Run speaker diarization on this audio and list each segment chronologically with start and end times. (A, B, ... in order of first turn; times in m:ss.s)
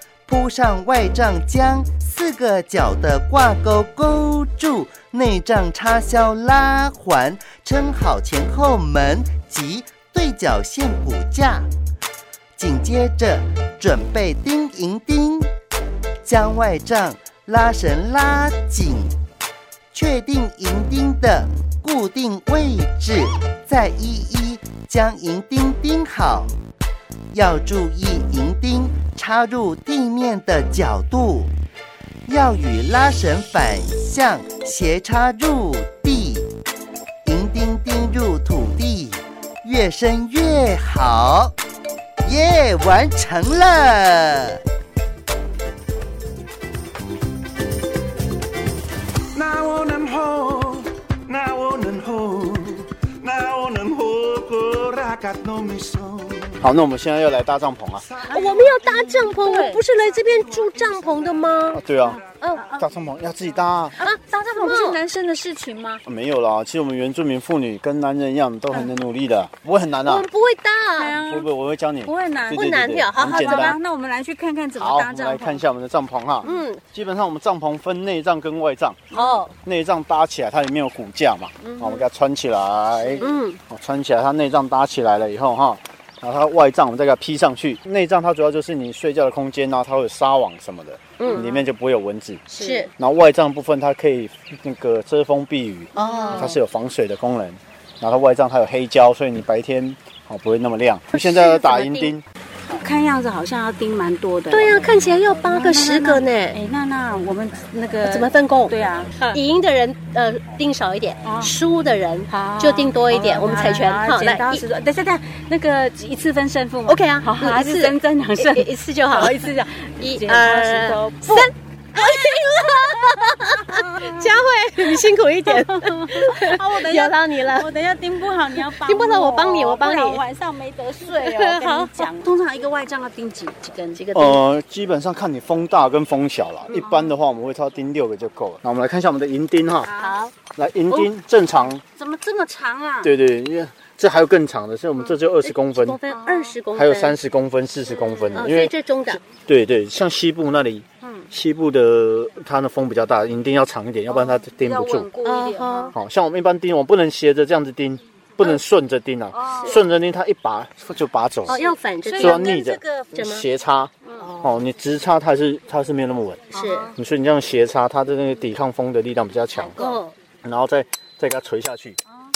0:00.3-0:11.7 A
0:12.6-0:15.5 A
0:16.2-0:19.2 A
0:19.9-0:26.5 A
0:27.3-0:31.5 A
0:32.3-0:36.5 A
0:37.2-0:41.5 A
0:42.2-0:44.6 A
0:49.4-0:56.5 B
0:56.6-0:58.2 C
0:58.3-0:59.8 D
0:58.4-1:01.8 E
0:59.1-0:59.4 A
1:00.1-1:01.8 A
1:01.7-1:02.2 C
1:02.0-1:02.9 D
1:02.4-1:02.7 A
1:02.7-1:04.0 C
1:04.0-1:06.0 D
1:06.1-1:10.3 C
1:10.0-1:10.4 A
1:10.4-1:11.0 E
1:11.0-1:11.5 D
1:11.2-1:13.8 C
1:12.0-1:12.7 D
1:12.6-1:13.8 A
1:13.2-1:15.6 D
1:14.8-1:19.1 C
1:16.4-1:16.8 A
1:19.1-1:19.4 D
1:19.2-1:19.5 A
1:19.6-1:32.5 C
1:21.7-1:22.0 A
1:23.0-1:23.4 D
1:31.2-1:31.6 A
1:32.5-1:32.9 A
1:32.6-1:32.9 D
1:33.0-1:42.2 C
1:36.0-1:36.4 D
1:36.0-1:36.6 A
1:41.1-1:42.1 A
1:42.7-1:49.1 D
1:44.5-1:46.5 E
1:44.6-1:45.2 A
1:48.1-1:48.7 E
1:49.2-1:54.5 E
1:50.5-1:51.0 A
1:51.2-1:51.6 D
1:52.3-2:01.5 D
1:56.9-1:57.8 E
1:58.4-1:59.2 E
2:00.2-2:03.8 E
2:02.0-2:14.0 D
2:04.4-2:05.6 E
2:06.3-2:07.4 E
2:08.9-2:09.6 E
2:09.3-2:10.2 A
2:11.5-2:11.8 E
2:14.0-2:14.4 A
2:14.1-2:19.9 C
2:16.8-2:17.2 D
2:19.8-2:20.3 D
2:20.6-2:21.8 C
2:21.9-2:23.1 D
2:23.0-2:26.0 C
2:25.4-2:26.0 A
2:26.0-2:26.6 D
2:26.1-2:27.0 E
2:26.8-2:35.1 C
2:28.1-2:28.5 D
2:28.3-2:28.7 A
2:28.6-2:29.2 E
2:31.0-2:31.3 D
2:34.1-2:36.0 D
2:35.3-2:35.6 E
2:35.6-2:35.9 A
2:35.9-2:41.6 C
2:39.3-2:39.8 D
2:41.5-2:43.3 D
2:41.5-2:42.4 A
2:41.7-2:42.2 E
2:42.2-2:49.9 C
2:43.2-2:43.4 A
2:44.0-2:44.4 D
2:46.6-2:46.9 A
2:49.6-2:50.0 D
2:50.4-2:52.0 C